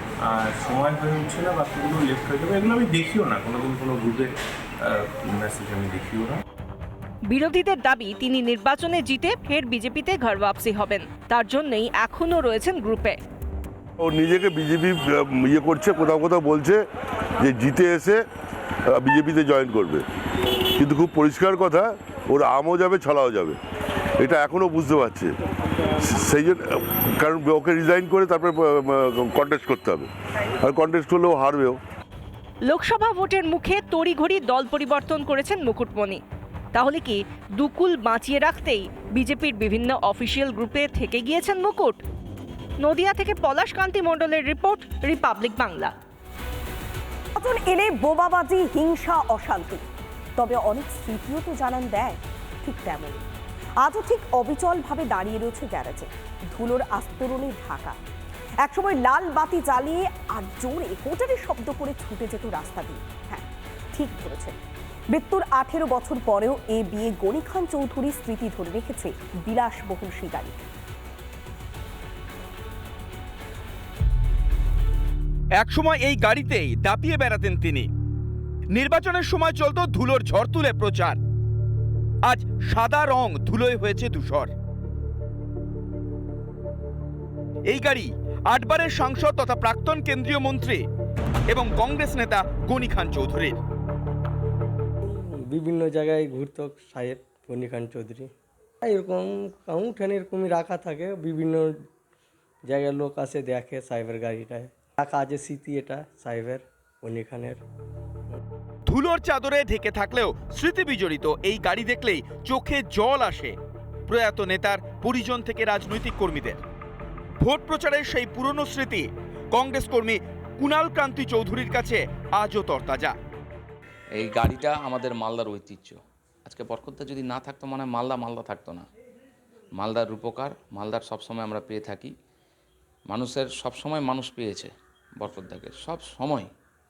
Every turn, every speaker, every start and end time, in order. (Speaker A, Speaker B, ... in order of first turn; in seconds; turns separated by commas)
Speaker A: 0.3-4.2, Speaker B: 0.9-2.7, Speaker B: 3.4-4.3, Speaker A: 5.4-6.3, Speaker B: 5.7-6.2, Speaker C: 7.3-13.2, Speaker D: 14.0-16.8, Speaker D: 17.4-18.2, Speaker D: 18.9-20.0, Speaker D: 20.8-23.6, Speaker D: 24.2-25.3, Speaker D: 26.0-30.1, Speaker D: 30.6-31.8, Speaker C: 32.7-36.2, Speaker C: 36.7-42.0, Speaker C: 42.8-45.9, Speaker E: 47.3-49.8, Speaker E: 50.4-53.2, Speaker E: 53.8-58.0, Speaker E: 58.6-64.6, Speaker E: 65.1-70.7, Speaker F: 75.6-77.9, Speaker F: 78.7-81.2, Speaker F: 82.2-84.5, Speaker F: 87.7-90.8, Speaker F: 91.5-93.6, Speaker B: 95.0-98.3, Speaker B: 98.8-101.7, Speaker B: 102.6-107.6, Speaker F: 108.9-113.5, Speaker F: 114.1-116.6, Speaker F: 117.4-123.1, Speaker G: 124.1-128.8, Speaker G: 129.8-132.1, Speaker G: 133.1-136.5